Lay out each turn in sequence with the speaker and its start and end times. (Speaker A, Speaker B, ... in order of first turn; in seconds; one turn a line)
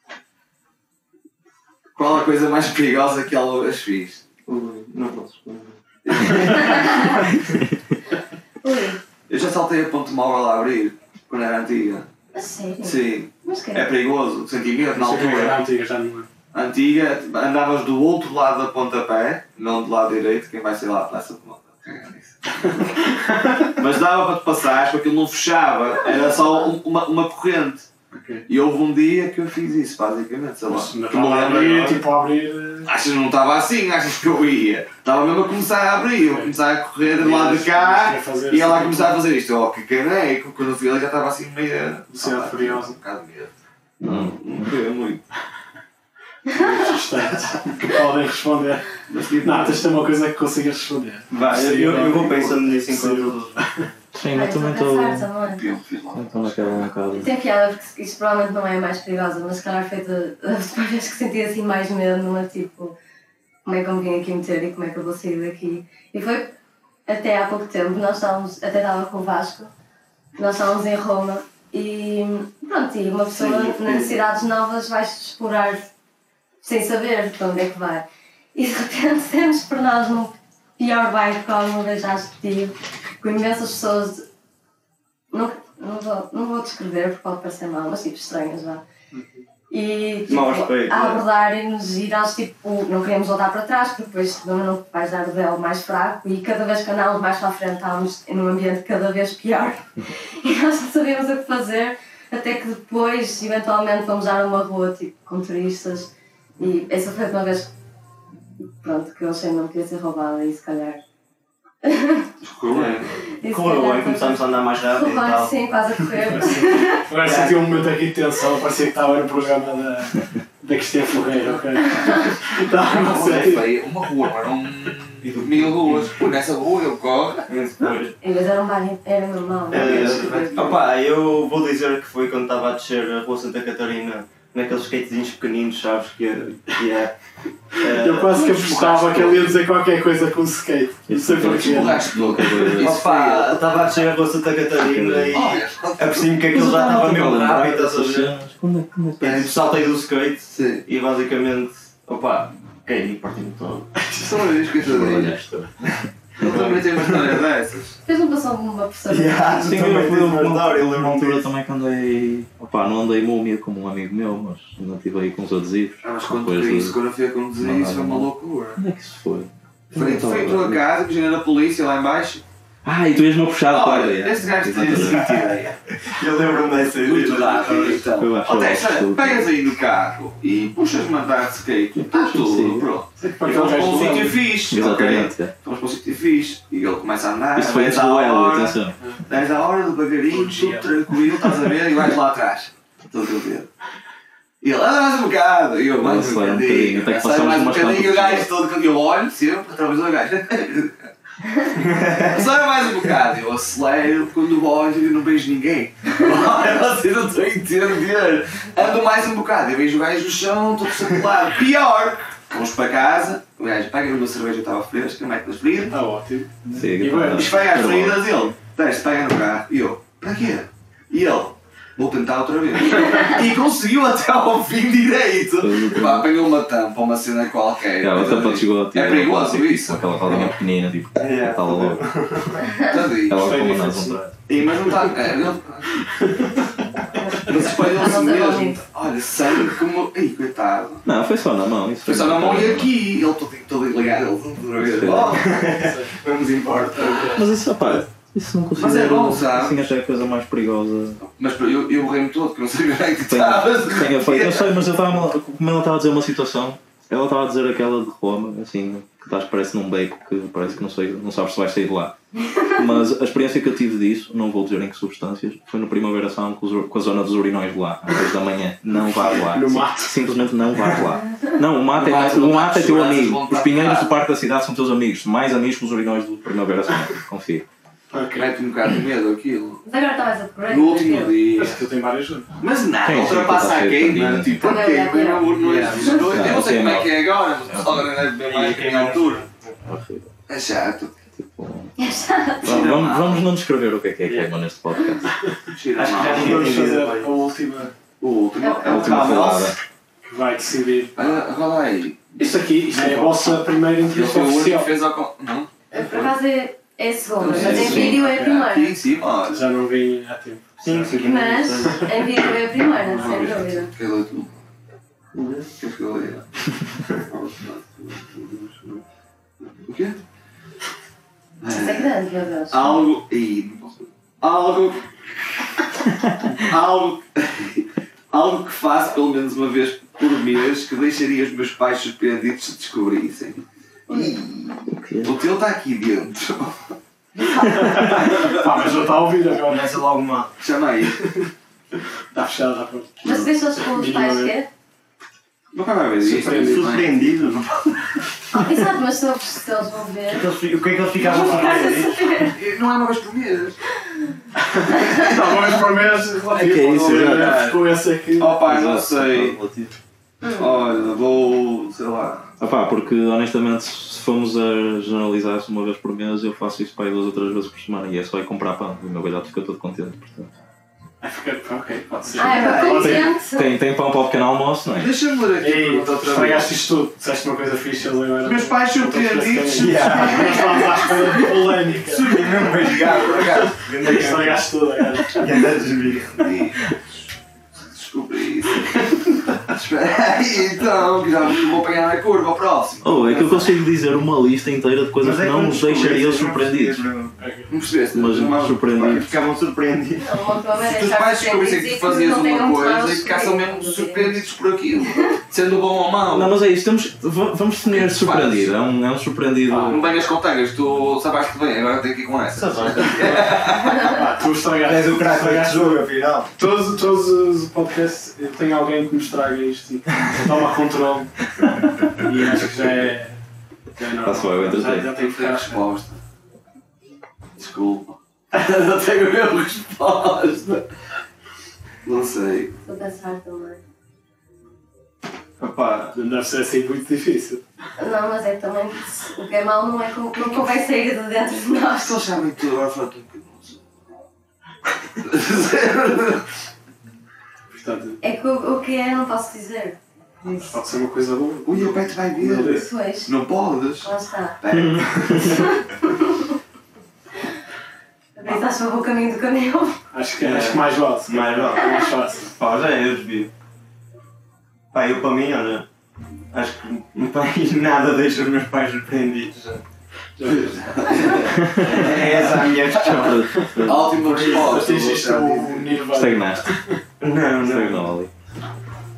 Speaker A: 2.0-4.2
Speaker B: 4.5-5.8
Speaker A: 6.0-7.2
Speaker C: 6.5-7.2
Speaker D: 7.0-8.0
Speaker C: 8.6-9.0
Speaker A: 9.3-12.1
Speaker C: 12.3-13.9
Speaker A: 12.8-15.6
Speaker E: 14.9-16.3
Speaker A: 16.5-22.8
Speaker E: 22.7-23.7
Speaker A: 23.8-27.9
Speaker E: 28.1-28.4
Speaker A: 28.5-32.0
Speaker E: 30.7-32.9
Speaker A: 32.9-45.2
Speaker E: 37.1-39.2
Speaker E: 42.1-43.0
Speaker D: 44.0-44.8
Speaker E: 46.5-53.9
Speaker A: 49.1-49.9
Speaker B: 51.3-53.9
Speaker D: 54.1-55.3
Speaker C: 54.3-55.6
Speaker A: 55.5-56.9
Speaker D: 56.1-57.3
Speaker C: 57.1-63.0
Speaker C: 63.6-66.5
Speaker C: 67.1-69.7
Speaker C: 70.4-75.9
Speaker B: 73.3-74.2
Speaker C: 76.6-84.3
Speaker C: 85.3-88.8
Speaker E: 89.1-89.4
Speaker C: 89.7-107.7
Speaker B: 90.3-91.2
Speaker C: 108.8-111.0
Speaker C: 111.8-112.3
Speaker A: 112.4-113.2
Speaker B: 112.7-115.6
Speaker C: 113.3-117.1
Speaker E: 116.3-123.7
Speaker B: 117.2-118.0
Speaker B: 122.5-123.6
Speaker A: 122.8-127.5
Speaker B: 125.2-126.1
Speaker B: 127.5-128.2
Speaker C: 128.2-130.7
Speaker B: 129.7-137.2
Speaker A: 129.7-130.9
Speaker B: 137.8-138.4
Speaker E: 137.9-142.1
Speaker A: 138.3-139.6
Speaker D: 141.1-143.0
Speaker A: 141.4-144.1
Speaker B: 142.8-148.3
Speaker D: 144.8-145.5
Speaker A: 145.3-147.4
Speaker D: 146.5-149.5
Speaker B: 149.2-153.9
Speaker A: 149.2-149.5
Speaker A: 150.5-150.8
Speaker A: 154.2-155.3
Speaker D: 154.8-156.8
Speaker A: 156.4-158.0
Speaker B: 156.5-157.4
Speaker C: 158.1-159.7
Speaker B: 159.1-161.5
Speaker D: 159.6-167.0
Speaker A: 166.0-168.8
Speaker D: 167.6-170.8
Speaker A: 169.9-172.4
Speaker D: 172.8-175.4
Speaker A: 173.7-175.8
Speaker B: 176.1-178.1
Speaker A: 177.0-193.7
Speaker D: 178.2-179.5
Speaker D: 182.0-182.9
Speaker E: 183.2-184.5
Speaker D: 184.7-185.5
Speaker D: 187.6-189.0
Speaker E: 190.3-191.1
Speaker A: 194.6-201.1
Speaker D: 196.0-198.5
Speaker B: 201.8-202.4
Speaker A: 202.2-216.0
Speaker E: 215.9-217.6
Speaker D: 216.7-218.4
Speaker A: 217.3-230.4
Speaker D: 225.6-226.3
Speaker D: 228.0-232.0
Speaker B: 231.2-232.6
Speaker A: 232.8-233.4
Speaker D: 233.2-234.4
Speaker E: 233.3-234.2
Speaker A: 234.5-236.0
Speaker E: 236.1-236.5
Speaker C: 237.1-238.8
Speaker A: 237.5-241.0
Speaker D: 241.1-242.9
Speaker A: 242.1-245.5
Speaker D: 244.8-245.5
Speaker B: 245.3-248.0
Speaker E: 245.6-246.1
Speaker E: 247.1-247.3
Speaker D: 247.3-251.2
Speaker A: 248.8-249.9
Speaker A: 251.2-254.8
Speaker D: 253.3-262.1
Speaker D: 262.7-277.6
Speaker E: 269.0-270.4
Speaker C: 271.2-271.6
Speaker A: 271.9-274.2
Speaker E: 278.1-278.5
Speaker A: 278.3-279.8
Speaker C: 279.9-281.4
Speaker A: 280.7-281.8
Speaker E: 281.6-282.5
Speaker A: 282.6-289.5
Speaker D: 283.0-284.9
Speaker C: 284.6-285.5
Speaker E: 285.6-286.2
Speaker B: 285.6-286.0
Speaker D: 286.2-288.2
Speaker B: 288.5-289.8
Speaker D: 289.8-290.3
Speaker A: 290.5-291.2
Speaker D: 291.3-291.9
Speaker C: 292.0-292.7
Speaker A: 292.6-293.5
Speaker D: 292.6-295.3
Speaker A: 295.7-296.8
Speaker B: 295.9-297.5
Speaker E: 296.2-297.9
Speaker A: 298.2-299.8
Speaker C: 298.6-299.5
Speaker D: 298.8-299.8
Speaker E: 300.2-301.5
Speaker A: 301.2-302.4
Speaker E: 302.4-304.9
Speaker D: 302.9-303.4
Speaker A: 304.1-306.3
Speaker C: 305.9-308.9
Speaker A: 307.4-309.7
Speaker D: 307.5-308.3
Speaker E: 307.6-308.6
Speaker E: 309.5-311.3
Speaker B: 310.8-312.1
Speaker C: 311.2-313.9
Speaker E: 313.1-313.5
Speaker A: 313.2-314.5
Speaker B: 315.3-315.7
Speaker A: 315.8-316.5
Speaker A: 317.3-319.0
Speaker A: 319.8-320.2
Speaker A: 321.6-322.1
Speaker C: 321.7-323.0
Speaker A: 322.7-325.7
Speaker A: 326.6-336.9
Speaker C: 334.1-334.4
Speaker D: 334.9-335.4
Speaker E: 337.6-339.9
Speaker D: 337.6-338.0
Speaker B: 339.5-340.5
Speaker A: 340.6-341.2
Speaker E: 342.3-344.6
Speaker C: 343.2-344.7
Speaker A: 345.7-347.5
Speaker B: 346.2-347.8
Speaker E: 346.3-347.4
Speaker C: 348.5-350.5
Speaker B: 350.3-352.3
Speaker C: 351.1-352.6
Speaker A: 352.4-353.8
Speaker E: 354.7-358.6
Speaker C: 354.9-355.2
Speaker D: 356.5-357.8
Speaker A: 356.9-357.8
Speaker A: 358.4-359.6
Speaker D: 358.6-360.0
Speaker C: 360.4-360.8
Speaker A: 360.5-362.5
Speaker D: 362.6-370.5
Speaker E: 371.2-373.3
Speaker C: 372.4-373.7
Speaker A: 372.4-373.3
Speaker D: 372.9-375.1
Speaker A: 375.0-376.7
Speaker E: 375.6-385.7
Speaker A: 378.4-380.4
Speaker B: 379.7-380.9
Speaker C: 380.2-381.1
Speaker A: 381.5-383.9
Speaker B: 382.5-384.7
Speaker B: 385.3-386.4
Speaker A: 386.0-386.9
Speaker A: 387.8-393.8
Speaker D: 393.0-397.1
Speaker B: 395.2-397.4
Speaker E: 397.4-397.7
Speaker A: 397.7-399.3
Speaker D: 398.1-399.3
Speaker B: 399.1-400.3
Speaker C: 400.2-404.4
Speaker A: 400.8-406.6
Speaker C: 405.1-405.4
Speaker D: 406.3-410.1
Speaker A: 407.9-408.7
Speaker B: 409.7-410.1
Speaker A: 409.9-414.2
Speaker B: 412.5-413.6
Speaker E: 412.9-416.0
Speaker B: 414.8-416.5
Speaker E: 416.6-421.4
Speaker D: 421.6-421.9
Speaker E: 422.2-423.4
Speaker E: 424.0-425.9
Speaker D: 424.2-425.1
Speaker A: 425.2-426.2
Speaker A: 427.6-430.9
Speaker A: 432.1-432.8
Speaker C: 432.8-433.8
Speaker B: 435.6-436.2
Speaker E: 436.1-437.6
Speaker C: 438.0-442.2
Speaker A: 442.0-443.8
Speaker A: 445.2-446.4
Speaker E: 447.7-448.2
Speaker C: 448.2-450.8
Speaker E: 450.5-452.9
Speaker A: 451.6-455.7
Speaker C: 452.6-453.3
Speaker C: 454.0-454.6
Speaker D: 454.7-455.5
Speaker C: 455.4-456.5
Speaker C: 458.4-460.0
Speaker E: 460.1-462.6
Speaker B: 460.4-463.5
Speaker B: 464.9-465.9
Speaker B: 466.5-469.8
Speaker E: 470.4-471.4
Speaker A: 470.4-472.7
Speaker D: 471.6-472.1
Speaker B: 471.8-473.6
Speaker D: 472.9-474.2
Speaker A: 473.8-476.0
Speaker B: 474.2-474.8
Speaker E: 474.4-477.0
Speaker D: 476.1-476.7
Speaker B: 477.2-478.1
Speaker D: 477.6-478.3